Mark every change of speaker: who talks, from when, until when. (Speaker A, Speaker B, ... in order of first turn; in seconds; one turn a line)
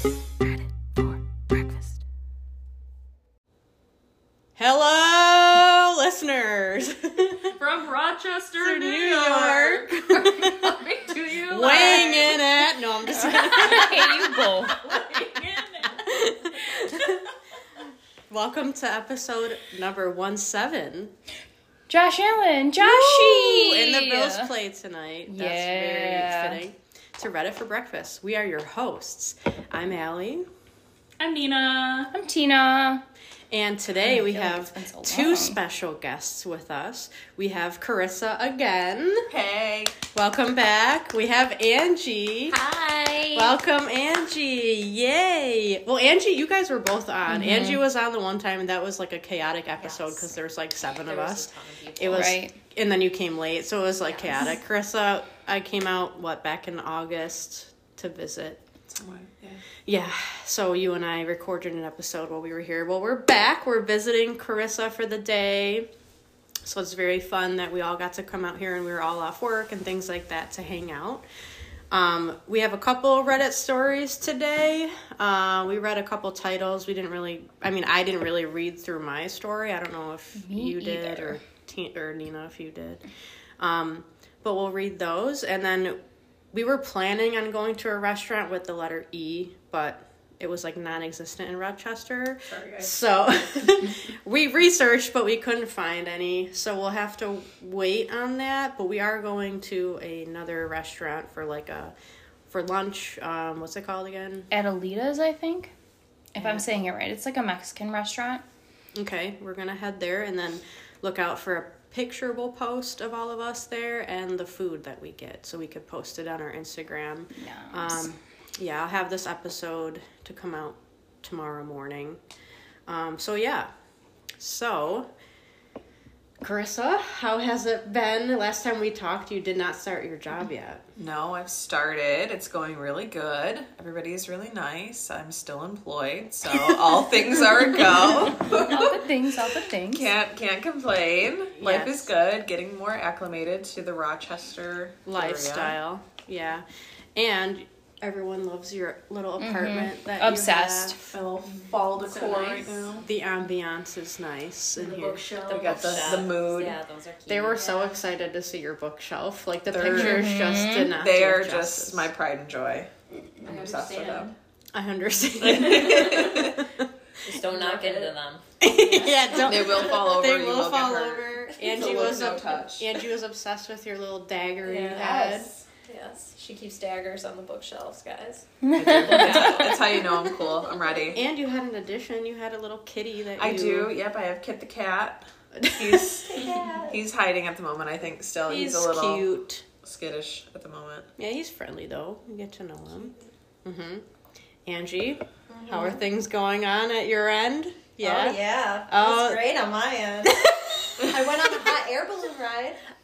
Speaker A: 1.0-1.8
Speaker B: 4.5-7.5
Speaker C: 7.6-12.4
Speaker B: 8.6-14.3
Speaker A: 10.4-10.7
Speaker C: 13.1-13.9
Speaker D: 13.2-14.8
Speaker A: 13.5-13.9
Speaker C: 14.8-16.1
Speaker A: 14.9-15.4
Speaker B: 15.8-17.2
Speaker B: 18.3-21.1
Speaker D: 21.9-24.5
Speaker B: 22.8-30.4
Speaker D: 25.3-26.6
Speaker C: 31.2-32.1
Speaker D: 32.1-33.0
Speaker B: 33.5-39.3
Speaker D: 34.1-35.6
Speaker E: 39.3-40.0
Speaker B: 40.1-42.6
Speaker A: 42.5-43.6
Speaker B: 43.3-58.6
Speaker D: 47.3-47.8
Speaker A: 49.8-52.4
Speaker D: 52.1-52.6
Speaker A: 54.1-54.5
Speaker E: 58.9-59.6
Speaker B: 59.9-65.9
Speaker B: 66.6-71.2
Speaker B: 71.9-83.0
Speaker D: 80.3-81.4
Speaker B: 83.6-86.0
Speaker B: 86.5-101.9
Speaker E: 92.5-92.8
Speaker B: 102.5-104.5
Speaker D: 104.5-105.7
Speaker D: 106.3-108.4
Speaker B: 106.4-106.7
Speaker B: 108.9-122.2
Speaker D: 117.4-118.2
Speaker B: 122.9-123.7
Speaker B: 124.4-125.1
Speaker B: 126.4-130.8
Speaker E: 131.0-145.8
Speaker D: 138.6-140.1
Speaker B: 141.6-142.1
Speaker B: 145.1-151.0
Speaker D: 149.4-151.1
Speaker E: 151.1-153.0
Speaker C: 151.9-153.1
Speaker B: 153.0-155.3
Speaker C: 154.8-156.3
Speaker A: 155.4-158.0
Speaker E: 155.4-156.8
Speaker B: 157.3-162.1
Speaker E: 159.7-164.3
Speaker D: 159.9-160.9
Speaker C: 163.4-164.3
Speaker B: 164.7-166.9
Speaker E: 165.4-166.6
Speaker A: 167.2-169.8
Speaker C: 167.5-168.1
Speaker B: 168.6-175.5
Speaker E: 169.4-172.9
Speaker A: 174.6-181.0
Speaker D: 178.6-179.6
Speaker E: 178.8-181.2
Speaker B: 181.1-183.9
Speaker E: 183.4-185.2
Speaker B: 185.5-186.6
Speaker E: 185.8-189.2
Speaker A: 186.2-187.0
Speaker B: 188.5-189.6
Speaker E: 189.8-191.1
Speaker B: 191.2-194.0
Speaker B: 194.7-199.4
Speaker A: 195.5-196.0
Speaker A: 198.0-202.8
Speaker B: 200.2-200.8
Speaker B: 201.4-201.7